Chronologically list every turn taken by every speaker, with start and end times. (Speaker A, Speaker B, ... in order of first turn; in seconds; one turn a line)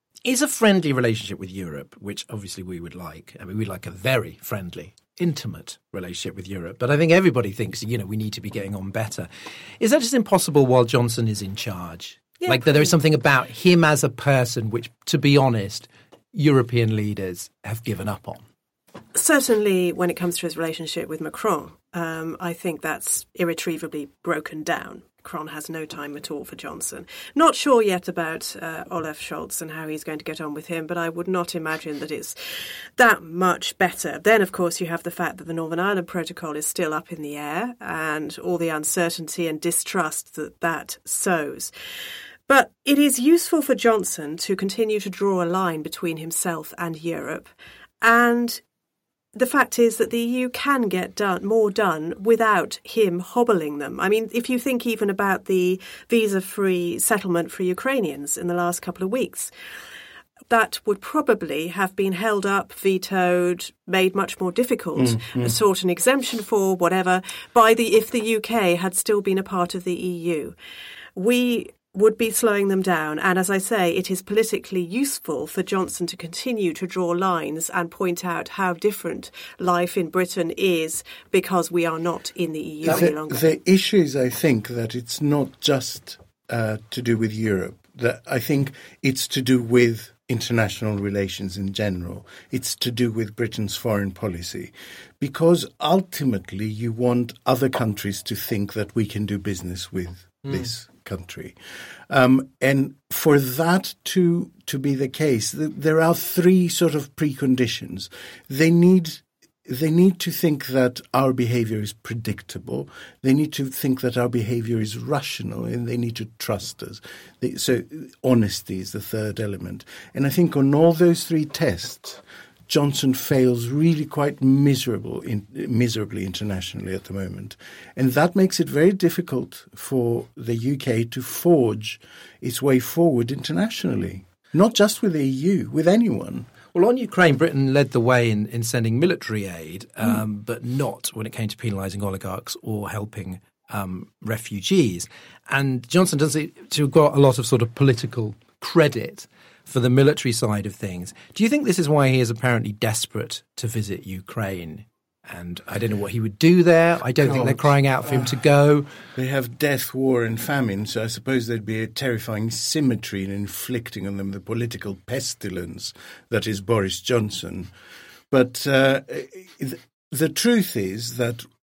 Speaker A: 0.2-18.4
Speaker B: 12.4-12.9
Speaker B: 19.1-32.4
Speaker B: 33.0-41.7
Speaker B: 42.5-48.6
Speaker B: 49.3-59.5
Speaker B: 60.5-70.6
Speaker C: 65.0-65.5
Speaker B: 71.2-83.5
Speaker C: 82.8-101.6
Speaker C: 102.1-136.5
Speaker A: 136.7-158.9
Speaker C: 157.2-158.4
Speaker C: 159.2-167.7
Speaker C: 168.3-171.4